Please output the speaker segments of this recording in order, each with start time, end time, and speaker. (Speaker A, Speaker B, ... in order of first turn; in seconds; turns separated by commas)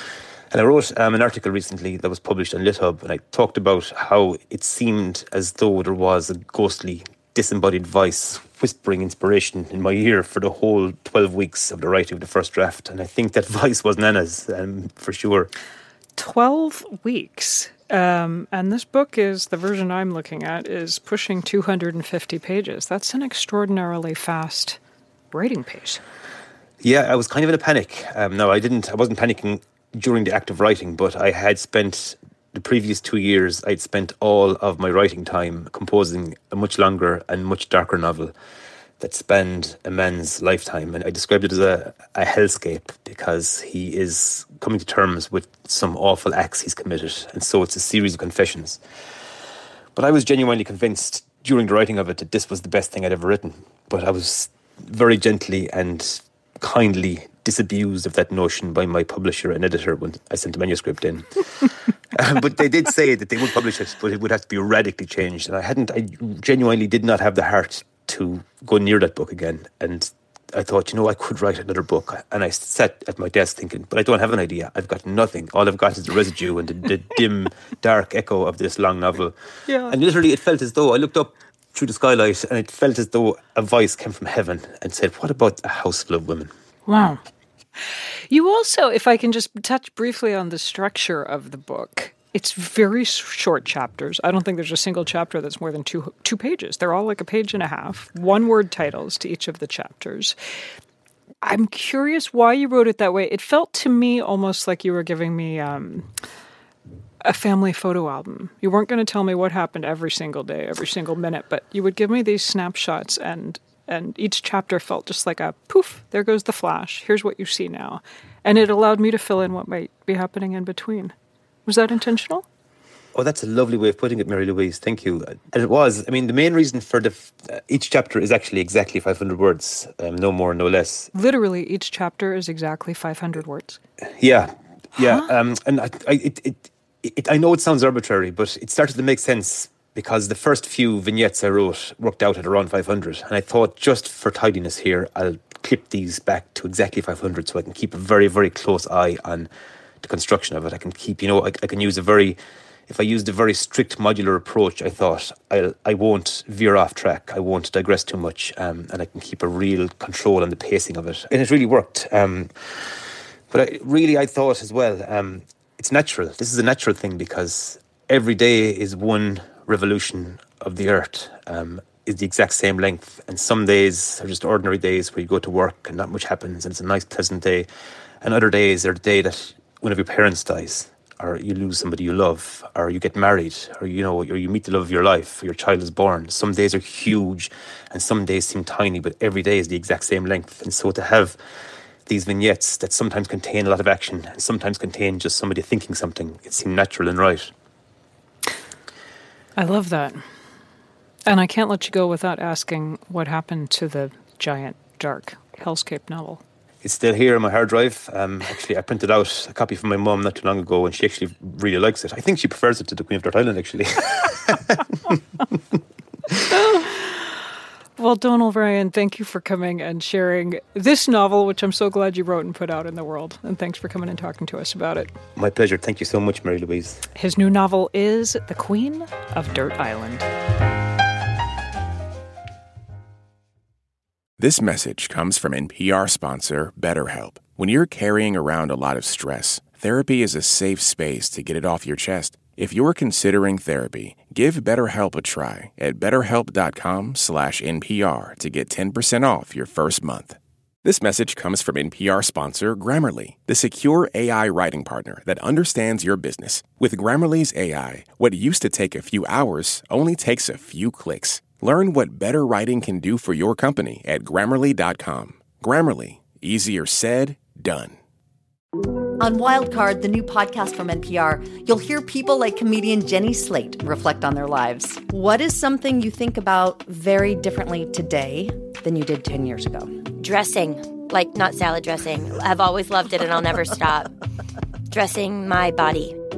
Speaker A: 0.5-15.5, Speaker B: 16.2-24.8, Speaker B: 25.3-26.0, Speaker A: 26.8-38.3, Speaker A: 39.0-48.8, Speaker A: 49.9-79.3, Speaker B: 79.7-79.9, Speaker A: 79.9-86.5, Speaker B: 86.8-87.2, Speaker B: 88.3-100.3, Speaker B: 101.4-106.1, Speaker B: 107.2-121.1, Speaker B: 121.6-122.5, Speaker A: 123.1-131.1, Speaker B: 131.1-133.8, Speaker A: 134.2-149.5, Speaker B: 135.0-135.3, Speaker A: 150.0-162.5, Speaker A: 163.5-177.7, Speaker A: 178.2-191.4, Speaker A: 192.1-197.5, Speaker B: 199.6-200.2, Speaker B: 201.2-206.4, Speaker A: 206.8-214.9, Speaker B: 216.5-217.4, Speaker B: 217.9-225.1, Speaker A: 225.3-227.1, Speaker B: 227.1-230.3, Speaker C: 234.4-267.9, Speaker D: 269.2-280.0, Speaker E: 280.2-284.1, Speaker E: 284.9-286.1